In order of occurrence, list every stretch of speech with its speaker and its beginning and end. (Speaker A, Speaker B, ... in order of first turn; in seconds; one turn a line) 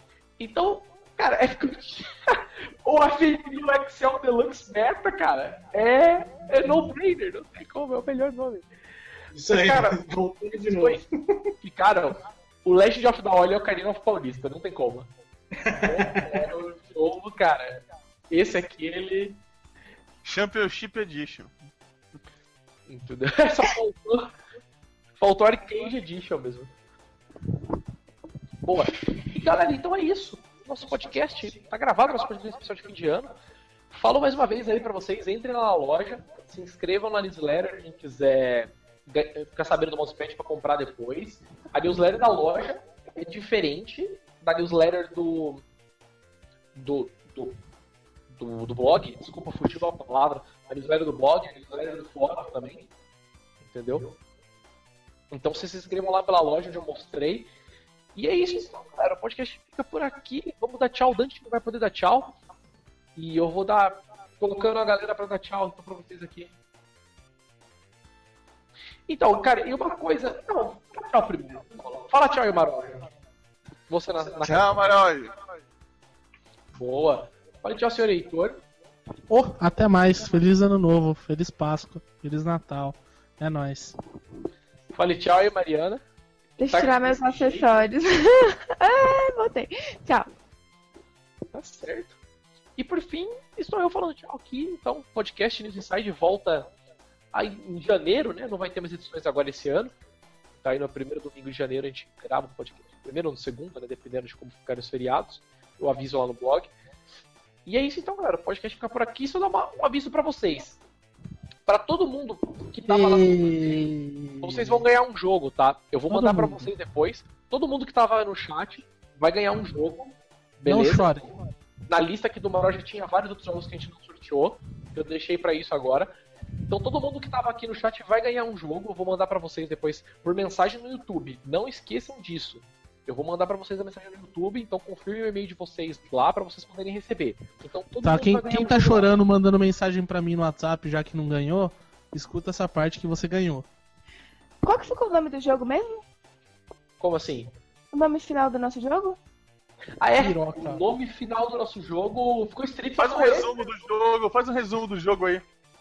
Speaker A: 0.4-8.7
Speaker B: 9.3-11.1
Speaker A: 9.5-11.1
Speaker A: 11.6-15.1
Speaker B: 15.6-16.4
Speaker A: 15.7-19.4
Speaker C: 20.2-21.6
Speaker A: 22.9-24.3
Speaker A: 25.2-26.7
Speaker A: 28.6-33.3
Speaker A: 33.9-45.6
Speaker A: 46.8-47.6
Speaker A: 48.3-52.9
Speaker A: 53.6-54.1
Speaker A: 55.3-57.5
Speaker A: 58.1-62.4
Speaker A: 63.2-66.5
Speaker A: 69.1-73.1
Speaker A: 73.9-74.9
Speaker C: 74.4-75.4
Speaker A: 76.7-78.6
Speaker D: 79.3-84.0
Speaker A: 84.9-86.0
Speaker E: 86.6-90.3
Speaker A: 86.7-87.9
Speaker A: 91.5-92.2
Speaker A: 92.8-96.7
Speaker A: 97.3-99.9
Speaker A: 100.6-106.7
Speaker A: 107.7-110.8
Speaker A: 111.7-121.1
Speaker D: 112.9-114.8
Speaker D: 116.1-116.7
Speaker D: 120.7-121.3
Speaker A: 121.9-126.1
Speaker A: 126.7-139.2
Speaker D: 138.0-143.7
Speaker E: 144.6-146.0
Speaker A: 147.0-147.5
Speaker E: 147.9-149.2
Speaker A: 150.0-153.5
Speaker D: 150.2-150.8
Speaker C: 153.0-155.4